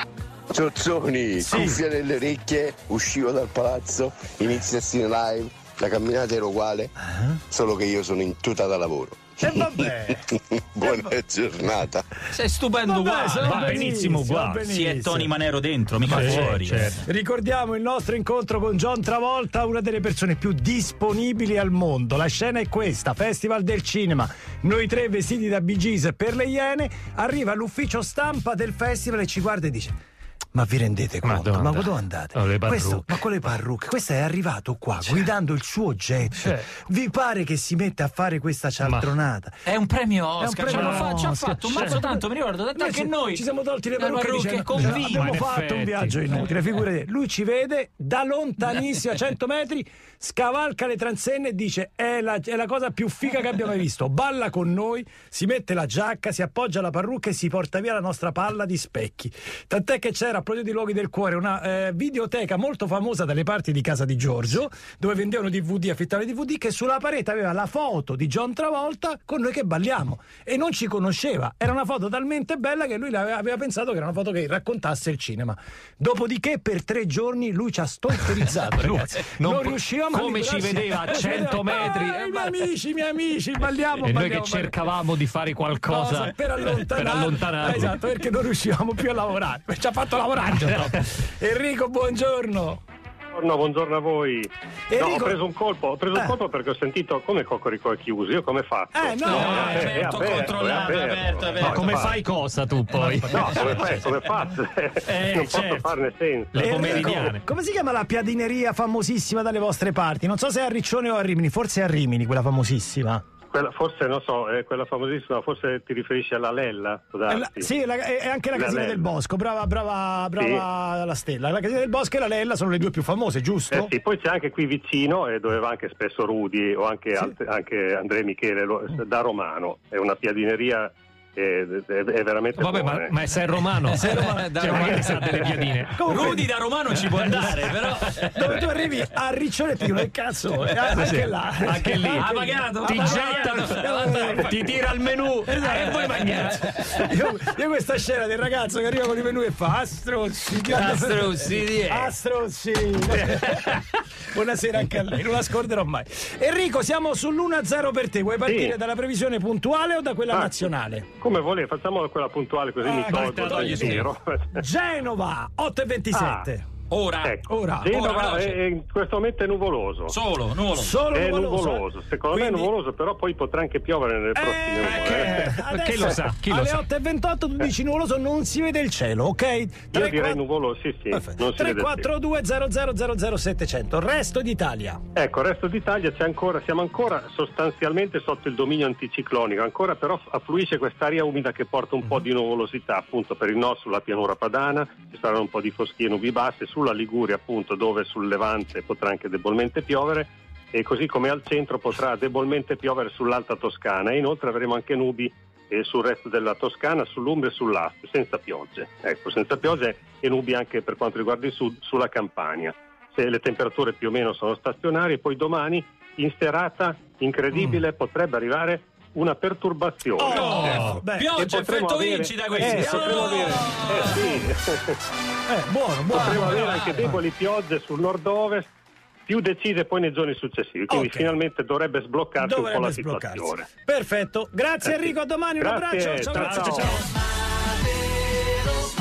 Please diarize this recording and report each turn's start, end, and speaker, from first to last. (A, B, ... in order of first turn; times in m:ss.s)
0:01.4-0:01.8 A
0:01.4-0:01.8 B
0:04.5-0:04.9 B
0:05.8-0:06.5 B
0:07.0-0:07.4 A
0:07.6-0:09.0 B
0:09.4-0:10.2 A
0:10.8-0:11.2 A
0:12.3-0:16.9 C
0:12.9-0:15.3 A
0:13.4-0:14.6 D
0:16.0-0:17.0 D
0:16.1-0:30.0 A
0:30.5-0:39.6 A
0:31.2-0:33.2 D
0:36.4-0:36.6 D
0:38.8-0:39.1 D
0:39.7-0:43.4 C
0:40.4-0:42.2 A
0:40.7-0:42.0 D
0:42.8-1:24.9 A
0:44.0-0:45.3 C
0:44.7-0:46.2 D
1:18.8-1:22.5 D
1:24.0-1:28.0 D
1:25.8-1:32.8 A
1:33.4-1:42.1 E
1:34.9-1:35.4 A
1:38.9-1:40.4 A
1:39.2-1:42.1 C
1:41.6-1:44.3 D
1:43.2-1:43.5 A
1:43.4-1:47.2 E
1:45.1-1:45.9 D
1:46.5-1:47.4 D
1:46.6-1:53.2 A
1:53.5-1:57.7 E
1:57.3-2:03.9 A
1:58.5-1:59.0 E
2:00.4-2:00.6 E
2:03.7-2:13.1 E
2:12.6-2:16.4 D
2:14.0-2:16.5 A
2:14.0-2:18.6 C
2:17.2-2:17.6 D
2:18.4-2:24.7 A
2:20.9-2:26.6 D
2:22.1-2:24.7 C
2:25.5-2:33.7 A
2:25.6-2:26.6 C
2:30.7-2:32.1 C
2:30.8-2:31.5 D
2:34.3-2:41.1 A
2:38.5-2:38.7 E
2:40.3-2:40.6 E
2:41.2-2:44.6 E
2:42.9-2:44.1 D
2:43.2-2:44.0 A
2:44.6-2:46.6 A
2:46.1-2:46.5 E
2:46.9-2:48.6 C
2:47.2-2:50.1 E
2:47.5-2:48.0 A
2:50.1-2:51.0 C
2:50.8-2:52.7 A
2:51.1-2:55.4 E
2:54.4-3:00.4 A
2:54.8-2:56.8 D
2:59.9-3:02.1 E
3:01.1-3:05.0 A
3:05.2-3:40.8 E
3:40.2-3:41.5 A
3:40.2-3:44.2 C
3:40.6-3:41.0 D
3:41.4-3:45.0 E
3:42.6-3:44.3 A
3:45.5-3:47.2 A
3:46.1-3:48.7 E
3:49.3-3:53.7 E
3:50.9-3:51.3 A
3:52.4-3:57.0 A
3:55.6-3:57.0 E